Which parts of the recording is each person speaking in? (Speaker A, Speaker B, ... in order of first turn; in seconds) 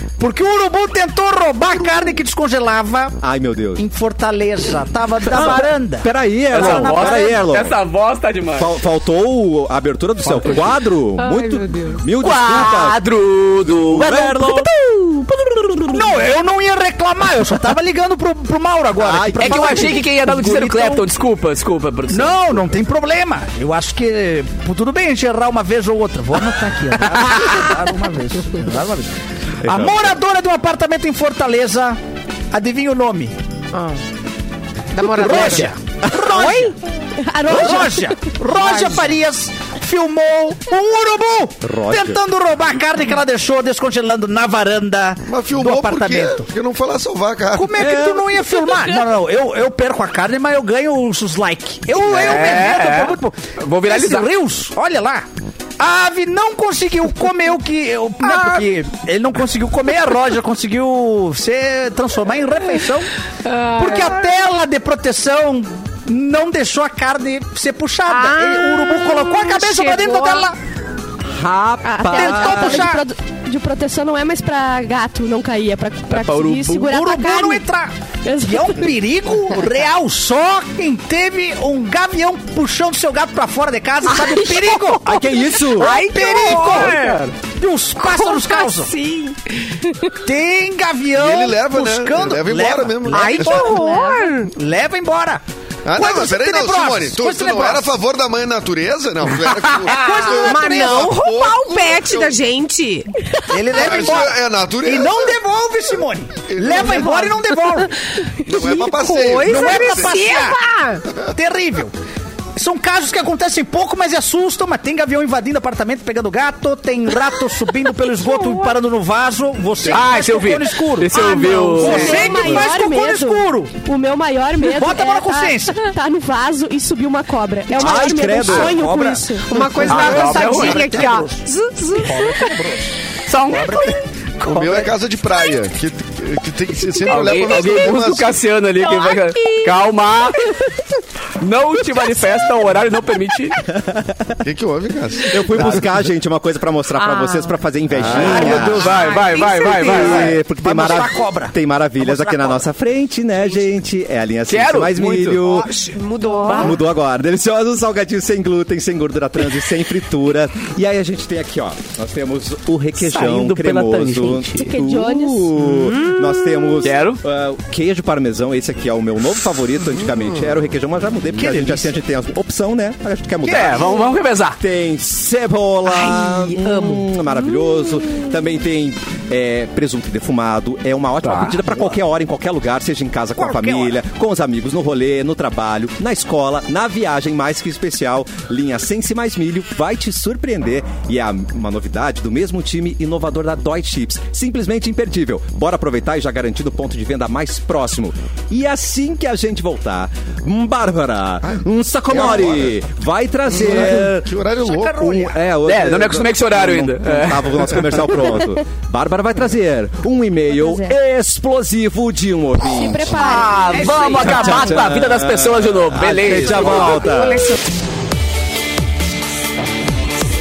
Speaker A: 0.2-3.2, 3.8-7.3, 15.9-21.1, 22.1-29.1, 29.6-32.0, 32.5-33.4, 35.0-36.8, 37.5-46.5, 47.5-55.3, 55.8-63.1, 63.7-70.6, 72.1-73.0, 76.8-85.2, 85.8-88.9, 90.2-93.8, 94.5-95.4, 95.9-97.9, 99.7-101.2, 103.5-107.9, 109.4-110.6, 111.3-111.9, 112.6-123.7, 124.6-125.8, 128.4-131.5, 132.0-132.9, 133.5-134.9, 148.1-149.2, 149.8-152.6, 171.3-171.9, 183.4-184.0, 204.6-205.3, 213.6-214.5
Speaker B: 3.2-3.8, 5.3-7.8, 8.6-13.0, 13.6-14.7, 19.0-20.0, 29.6-30.1, 41.6-42.2, 47.8-48.3, 71.3-72.9, 85.0-86.0, 127.7-128.9, 143.8-144.2, 145.3-149.0, 149.8-155.7, 156.5-204.3, 204.9-213.3, 214.2-217.5
Speaker C: 6.5-8.8, 12.2-16.2, 19.4-22.6, 27.2-27.5, 52.0-54.3, 76.1-76.9, 86.7-87.2, 119.9-122.7, 129.9-131.0, 133.3-134.0, 137.1-140.4, 141.4-143.6, 148.1-150.3, 154.5-155.4, 163.0-164.7, 166.8-167.2, 173.4-174.6, 181.2-181.6, 205.6-208.2, 213.2-217.0
Speaker D: 11.2-12.0, 33.7-34.0, 34.9-35.8, 38.5-39.1, 63.5-64.2, 68.1-70.5, 85.7-87.3, 88.0-89.8, 93.1-94.5, 99.9-103.1, 106.8-107.2, 108.5-111.0, 118.1-118.7, 121.2-122.4, 129.5-132.6, 138.8-139.8, 147.0-147.6, 148.3-150.3, 155.4-156.8, 165.8-166.7, 176.6-177.0, 213.7-214.4, 216.3-217.6
Speaker E: 36.3-38.4, 71.8-77.7, 78.2-78.9, 84.2-84.6, 93.6-94.3, 121.2-129.5, 164.6-165.7, 210.6-210.9, 212.6-214.4
Speaker F: 45.3-47.9, 91.1-93.8, 95.8-102.4, 103.7-105.4, 106.5-107.4, 108.4-110.2, 134.4-138.4, 144.4-145.8, 201.5-202.8, 203.5-205.3